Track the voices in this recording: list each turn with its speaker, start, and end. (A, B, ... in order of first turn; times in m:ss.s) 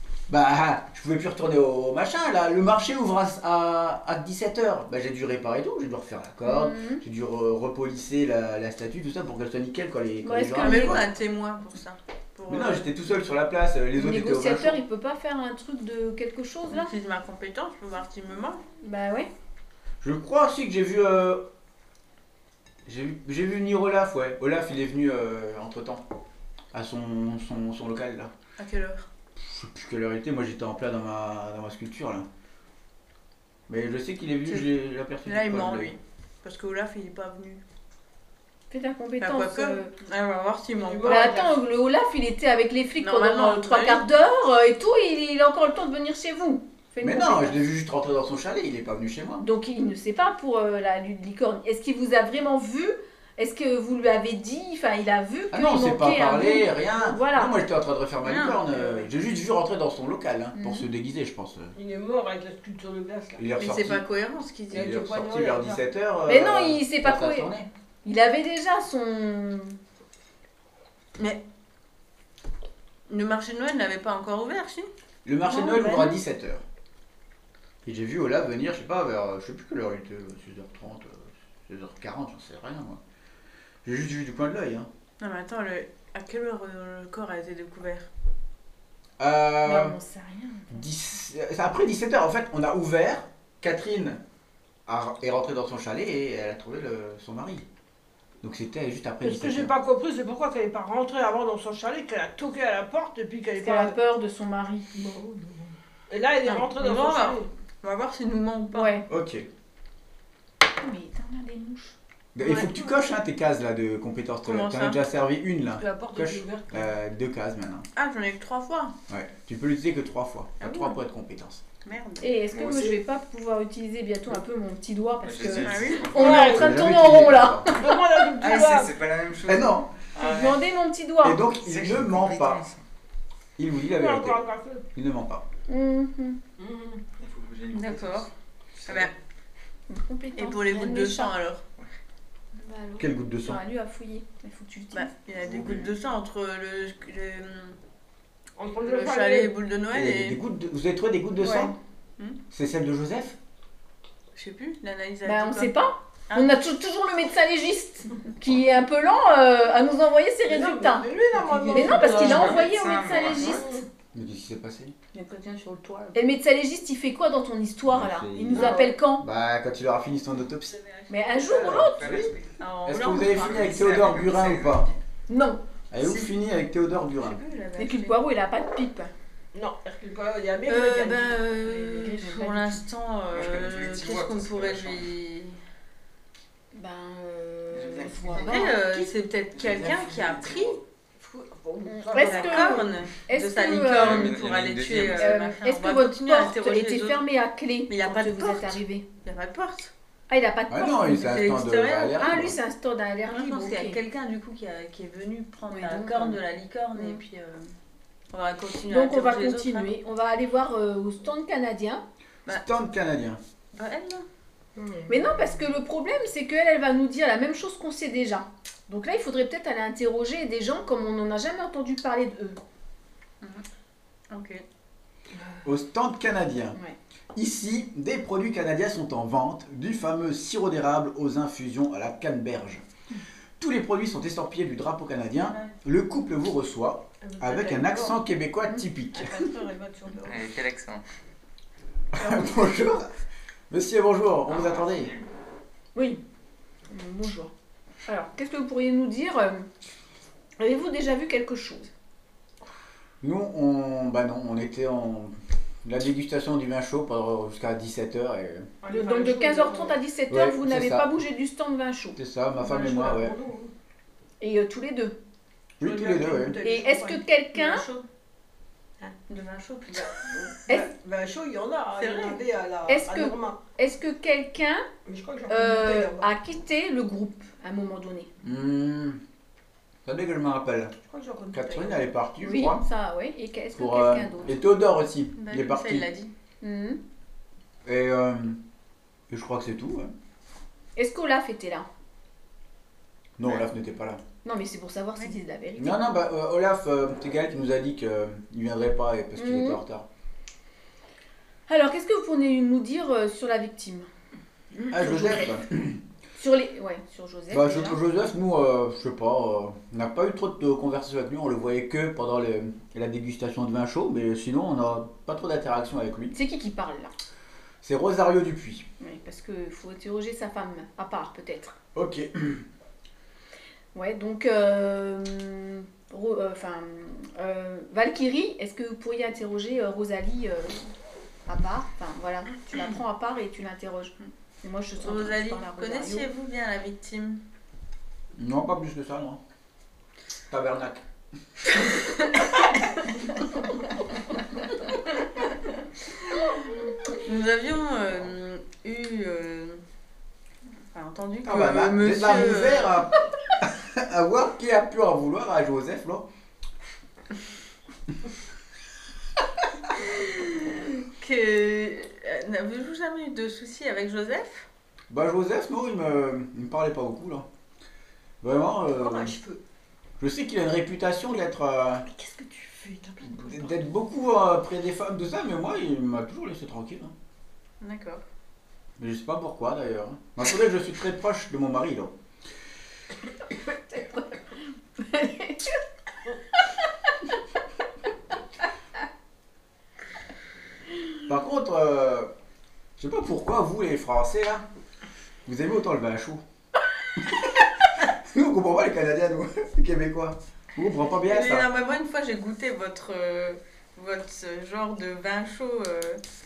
0:00.3-0:11.0 A
0:06.4-0:07.0 B
0:10.2-0:11.0 B
0:10.6-0:12.9 C
0:12.5-0:14.8 A
0:14.0-0:16.9 B
0:16.7-0:18.6 C
0:18.8-0:19.3 B
0:20.0-0:21.5 A
0:22.9-0:26.0 A
0:26.7-0:28.3 A
0:28.6-0:29.1 C
0:29.4-0:32.3 A
0:33.7-0:35.9 A
0:35.2-0:37.6 C
0:38.7-0:39.9 B
0:39.2-0:41.4 C
0:40.8-0:41.6 D
0:41.0-0:47.6 B
0:43.0-0:44.0 C
0:47.0-0:49.4 A
0:49.4-0:57.6 B
0:55.5-1:01.8 A
0:58.2-0:59.0 C
1:00.6-1:00.9 B
1:01.8-1:03.4 D
1:03.4-1:04.0 A
1:03.6-1:05.0 C
1:04.7-1:07.7 A
1:04.7-1:05.8 D
1:06.3-1:07.5 B
1:08.0-1:09.8 B
1:13.1-1:14.9 C
1:15.2-1:16.6 A
1:15.5-1:16.2 B
1:17.8-1:23.0 A
1:23.8-1:24.9 A
1:25.2-1:28.1 C
1:29.2-1:30.0 A
1:29.6-1:30.8 B
1:30.7-1:34.2 A
1:34.9-1:37.6 A
1:38.4-1:39.7 A
1:39.2-1:44.0 D
1:43.6-1:44.9 B
1:44.9-1:47.5 D
1:46.4-1:49.0 C
1:48.7-1:49.1 B
1:49.1-1:49.5 A
1:50.8-1:52.0 B
1:52.4-1:57.9 A
1:52.4-1:52.7 C
1:54.4-1:55.0 C
1:55.8-1:56.9 D
1:58.0-1:59.0 C
1:59.1-2:01.6 A
2:00.6-2:01.0 C
2:01.8-2:02.3 C
2:02.2-2:08.3 B
2:02.5-2:03.0 E
2:05.2-2:06.6 E
2:05.6-2:06.4 C
2:06.2-2:06.8 D
2:06.2-2:07.7 A
2:07.7-2:08.9 D
2:08.4-2:10.6 E
2:09.5-2:09.9 A
2:10.2-2:11.4 B
2:11.2-2:12.6 A
2:11.6-2:12.8 E
2:13.6-2:14.4 A
2:13.9-2:14.8 D
2:14.9-2:15.4 A
2:15.7-2:16.4 B
2:16.6-2:17.0 D
2:17.2-2:19.1 E
2:17.7-2:18.3 C
2:18.9-2:19.1 C
2:19.9-2:21.3 B
2:20.4-2:21.6 C
2:22.6-2:25.1 B
2:23.0-2:23.6 A
2:24.9-2:27.8 C
2:25.5-2:25.9 A
2:28.6-2:29.5 D
2:28.8-2:30.4 C
2:29.9-2:31.8 A
2:31.4-2:31.8 B
2:32.5-2:33.4 A
2:34.4-2:35.7 C
2:35.2-2:41.1 B
2:36.3-2:36.6 C
2:40.5-2:42.6 D
2:41.3-2:42.4 C
2:41.7-2:43.8 B
2:42.0-2:43.7 E
2:43.4-2:43.8 D
2:44.1-2:44.9 A
2:45.1-2:46.2 C
2:46.1-2:49.2 B
2:47.9-2:50.8 A
2:48.5-2:48.9 D
2:51.1-2:52.0 B
2:51.5-2:52.4 A
2:51.6-2:52.6 E
2:52.6-2:53.9 C
2:52.9-2:54.9 A
2:53.2-2:55.0 E
2:55.3-2:55.6 B
2:55.9-2:57.4 A
2:57.1-2:58.2 C
2:57.8-2:59.1 B
2:59.5-3:02.1 D
3:00.6-3:05.6 C
3:02.0-3:02.8 B
3:03.3-3:05.1 E
3:06.7-3:08.8 B
3:07.7-3:08.6 E
3:08.4-3:09.1 D
3:08.4-3:10.8 C
3:09.5-3:10.8 E
3:11.2-3:12.9 D
3:11.9-3:14.4 B
3:12.2-3:17.2 C
3:13.9-3:15.4 E
3:15.1-3:19.1 B
3:17.9-3:19.9 C
3:20.3-3:21.4 B
3:20.7-3:22.6 A
3:21.1-3:22.3 C
3:22.2-3:24.0 B
3:23.3-3:27.7 C
3:25.7-3:26.4 B
3:27.0-3:27.2 B
3:28.3-3:29.9 C
3:28.9-3:32.0 B
3:32.5-3:33.4 A
3:33.7-3:34.2 C
3:34.8-3:35.2 D
3:35.1-3:42.6 B
3:44.3-3:44.6 C
3:45.6-3:46.8 A
3:47.4-3:52.8 A
3:53.6-3:59.5 A
3:55.4-3:55.8 C
3:57.2-3:58.2 D
3:59.1-4:00.4 D
4:00.2-4:01.0 E
4:02.1-4:03.1 A
4:03.7-4:05.1 A
4:04.5-4:05.2 E
4:05.9-4:06.2 B
4:06.9-4:07.5 B
4:08.1-4:09.7 B
4:10.6-4:11.9 B
4:13.2-4:15.3 A
4:15.8-4:18.7 A
4:18.8-4:20.0 D
4:18.9-4:22.2 B
4:20.3-4:21.2 A
4:22.2-4:23.4 A
4:22.6-4:23.7 D
4:24.4-4:25.2 B
4:25.8-4:26.6 A
4:25.8-4:27.2 D
4:26.6-4:27.8 B
4:27.5-4:28.0 C
4:29.3-4:30.4 C
4:29.9-4:33.6 D
4:32.0-4:32.4 C
4:32.9-4:34.9 B
4:35.1-4:36.3 D
4:35.5-4:38.3 B
4:38.4-4:39.2 A
4:40.0-4:40.9 A
4:41.0-4:42.0 D
4:41.5-4:42.8 A
4:42.4-4:44.6 B
4:43.8-4:46.1 A
4:45.4-4:46.3 C
4:46.6-4:47.0 B
4:47.8-4:48.6 A
4:49.3-4:50.1 A
4:51.0-4:51.9 B
4:53.4-4:54.2 A
4:54.4-4:56.0 B
4:55.8-5:00.1 A
4:59.4-4:59.8 B
5:01.7-5:04.1 B
5:04.8-5:05.6 B
5:04.9-5:06.0 A
5:06.4-5:08.0 B
5:07.5-5:16.4 A
5:16.3-5:17.1 B
5:17.8-5:18.9 A
5:19.0-5:21.8 B
5:21.9-5:22.6 A
5:23.9-5:30.9 B
5:31.5-5:36.3 B
5:35.0-5:37.4 C
5:38.4-5:39.4 A
5:40.5-5:41.0 A
5:47.1-5:49.8 C
5:50.9-5:53.0 C
5:51.4-5:56.3 A
5:59.9-6:04.6 C
6:05.1-6:07.5 A
6:08.4-6:09.4 A
6:08.9-6:09.6 D
6:10.2-6:12.1 A
6:12.1-6:13.8 D
6:13.3-6:17.1 A
6:17.8-6:18.2 C
6:19.0-6:22.1 A
6:23.5-6:25.8 B
6:31.3-6:32.3 A
6:33.0-6:34.6 A
6:35.5-6:36.4 A
6:37.2-6:41.7 A
6:41.2-6:46.2 C